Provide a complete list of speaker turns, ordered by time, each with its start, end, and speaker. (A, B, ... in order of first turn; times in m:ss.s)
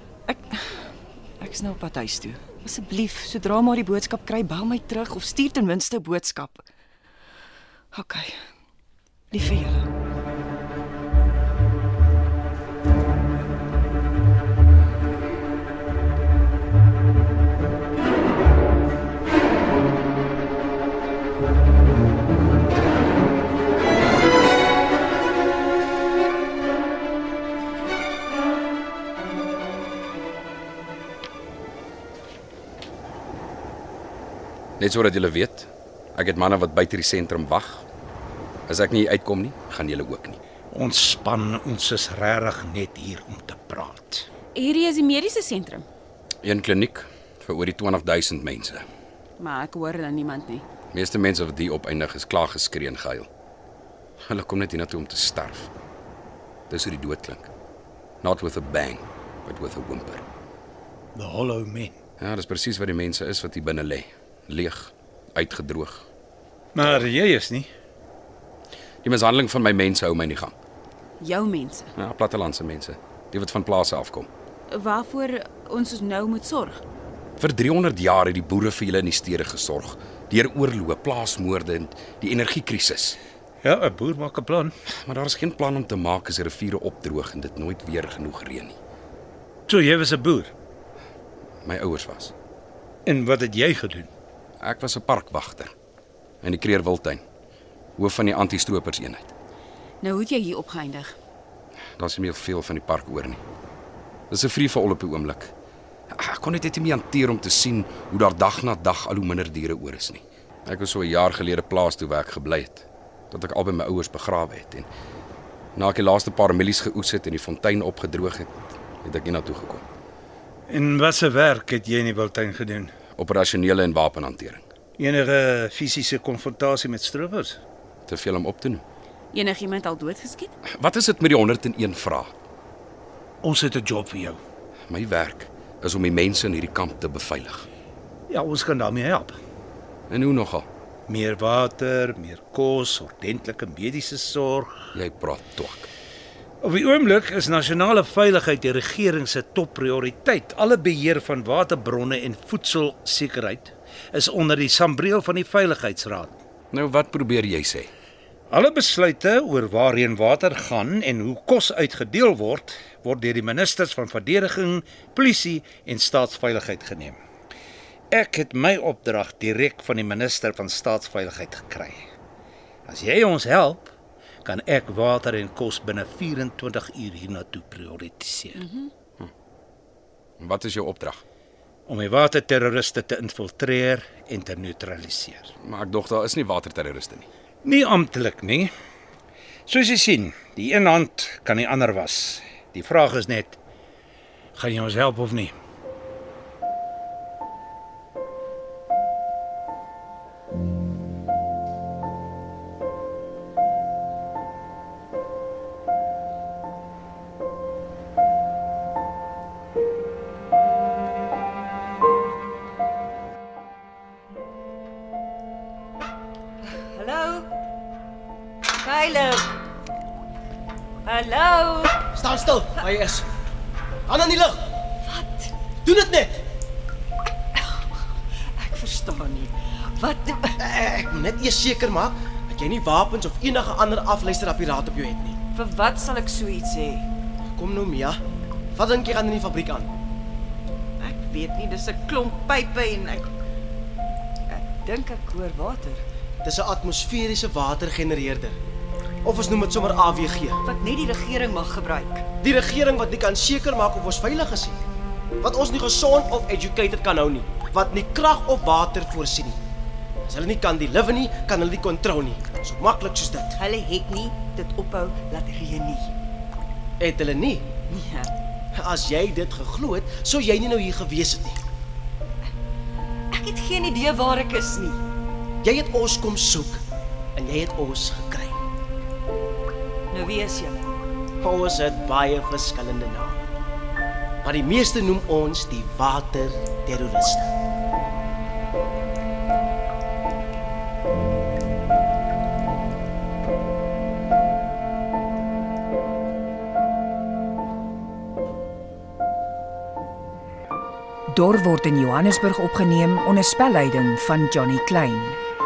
0:00.3-0:00.8 A
0:01.4-0:06.6 A
0:07.9-0:08.3 A
0:09.3-0:09.9 A
0:34.8-0:37.8 B
0:38.7-0:40.4 B
0:40.7-0:44.3 C
0:44.5-0:45.9 D
0:46.4-0:48.8 B
0:49.4-0:50.6 D
0:50.9-0:53.3 B
0:54.2-0:55.7 B
0:56.7-0:57.5 B
0:58.2-1:00.2 B
1:01.2-1:02.0 C
1:02.2-1:06.0 B
1:06.8-1:07.7 C
1:09.0-1:10.6 B
1:11.2-1:11.9 D
1:12.0-1:14.3 B
1:14.7-1:16.8 D
1:17.4-1:23.2 B
1:23.6-1:24.7 C
1:25.0-1:28.8 B
1:29.7-1:30.5 C
1:31.6-1:32.3 B
1:33.1-1:34.1 C
1:34.6-1:35.7 B
1:36.4-1:37.2 B
1:38.0-1:39.3 B
1:40.0-1:41.1 D
1:42.0-1:43.4 B
1:44.3-1:45.5 B
1:46.1-1:54.9 B
1:55.8-1:58.5 B
1:59.0-1:59.8 B
2:00.7-2:03.0 C
2:03.1-2:04.6 B
2:05.0-2:07.6 C
2:08.1-2:08.8 B
2:09.3-2:10.5 D
2:10.7-2:12.3 B
2:13.4-2:14.4 C
2:14.9-2:17.7 B
2:18.3-2:19.4 C
2:20.1-2:20.7 B
2:21.1-2:24.7 C
2:25.0-2:25.9 B
2:26.6-2:36.4 C
2:36.7-2:37.9 B
2:38.5-2:47.2 C
2:48.1-2:52.0 C
2:52.9-2:53.9 C
2:54.4-2:58.6 C
2:58.6-2:58.9 D
3:00.4-3:01.2 B
3:01.9-3:05.5 C
3:05.6-3:07.3 B
3:07.6-3:08.7 C
3:09.7-3:13.6 C
3:14.6-3:15.5 C
3:36.7-3:37.5 A
3:38.8-3:39.6 A
3:41.0-3:42.0 A
3:42.2-3:43.3 E
3:44.1-3:44.7 E
3:45.0-3:45.5 A
3:45.8-3:46.4 E
3:47.6-3:47.8 A
3:48.6-3:50.6 A
3:50.6-3:55.4 E
3:55.6-3:57.1 A
3:57.6-3:58.2 E
3:58.8-3:59.9 E
4:01.0-4:03.3 A
4:04.5-4:06.0 A
4:06.4-4:08.6 E
4:09.2-4:10.6 E
4:10.6-4:12.3 A
4:12.4-4:14.8 E
4:15.4-4:19.6 E
4:20.3-4:23.6 E
4:23.6-4:26.1 A
4:27.0-4:27.8 E
4:27.9-4:28.3 A
4:28.8-4:31.6 E
4:33.3-4:35.0 A
4:35.6-4:36.8 E
4:37.4-4:38.6 E
4:40.1-4:40.8 A
4:41.4-4:43.4 E
4:44.4-4:47.5 E
5:01.3-5:05.4 F